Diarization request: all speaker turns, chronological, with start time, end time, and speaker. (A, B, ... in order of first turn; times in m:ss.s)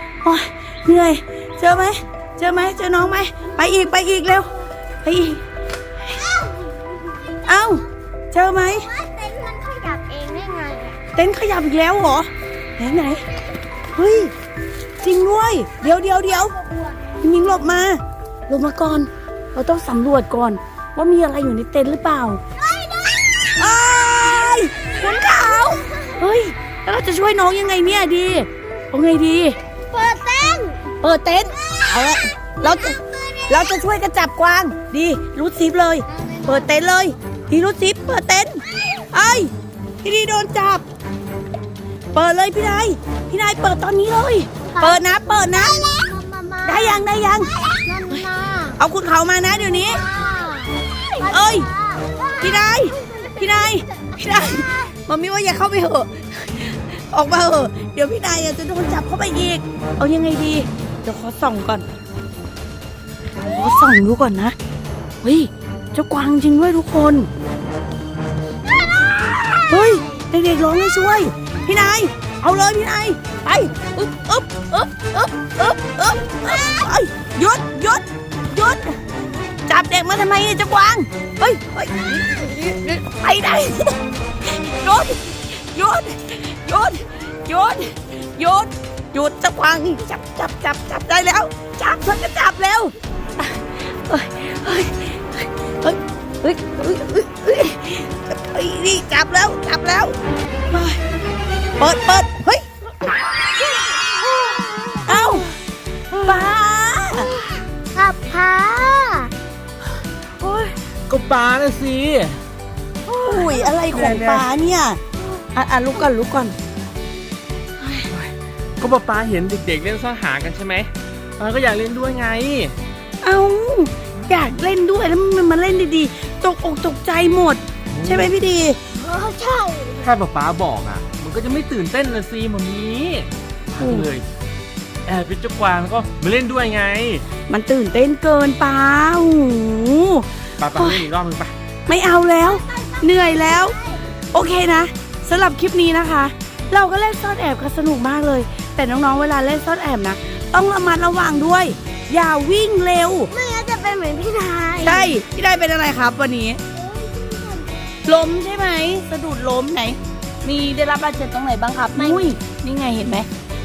0:00.2-0:04.5 A
0:05.0-0:05.4 A
0:06.2-0:06.6 B
0:07.3-0:07.8 B
0:07.4-0:08.9 A
0:08.6-0:11.0 B
0:11.1-0:13.2 A
0:13.9-0:14.3 A
0:15.0-0:16.5 A
0:15.8-0:17.1 B
0:17.2-0:22.4 A
0:22.6-0:23.5 B
0:23.6-0:29.6 A
0:25.3-0:26.1 B
0:29.9-0:30.9 B
0:31.0-0:33.0 A
0:31.9-0:33.7 B
0:33.5-0:38.6 A
0:36.2-0:36.5 B
0:39.1-0:40.8 A
0:42.1-0:45.8 A
0:44.7-0:47.0 B
0:46.6-0:47.5 A
0:47.8-0:48.8 B
0:48.8-0:50.0 A
0:49.5-0:54.9 B
0:51.2-0:51.7 A
0:52.4-1:01.8 A
1:03.4-1:04.5 A
1:05.2-1:07.3 A
1:09.4-1:10.0 B
1:09.5-1:19.0 A
1:19.7-1:24.0 A
1:24.6-1:40.2 A
1:40.7-1:41.0 A
1:41.8-1:42.6 A
1:43.9-1:45.3 B
1:45.0-1:45.5 A
1:46.1-1:47.3 A
1:47.9-1:49.3 B
1:50.4-1:52.4 C
1:53.1-1:53.5 B
1:53.2-1:55.0 A
1:53.9-1:54.4 C
1:55.5-1:56.5 A
1:58.1-2:02.8 C
2:03.2-2:08.8 A
2:08.0-2:08.3 C
2:08.9-2:10.1 B
2:10.0-2:14.2 C
2:13.8-2:14.1 A
2:15.0-2:17.2 C
2:17.5-2:21.0 A
2:20.6-2:21.5 C
2:21.9-2:23.8 A
2:22.4-2:24.0 B
2:24.3-2:33.3 A
2:33.3-2:35.1 B
2:34.8-2:36.6 A
2:36.7-2:37.8 B
2:38.0-2:43.3 A
2:42.0-2:42.4 B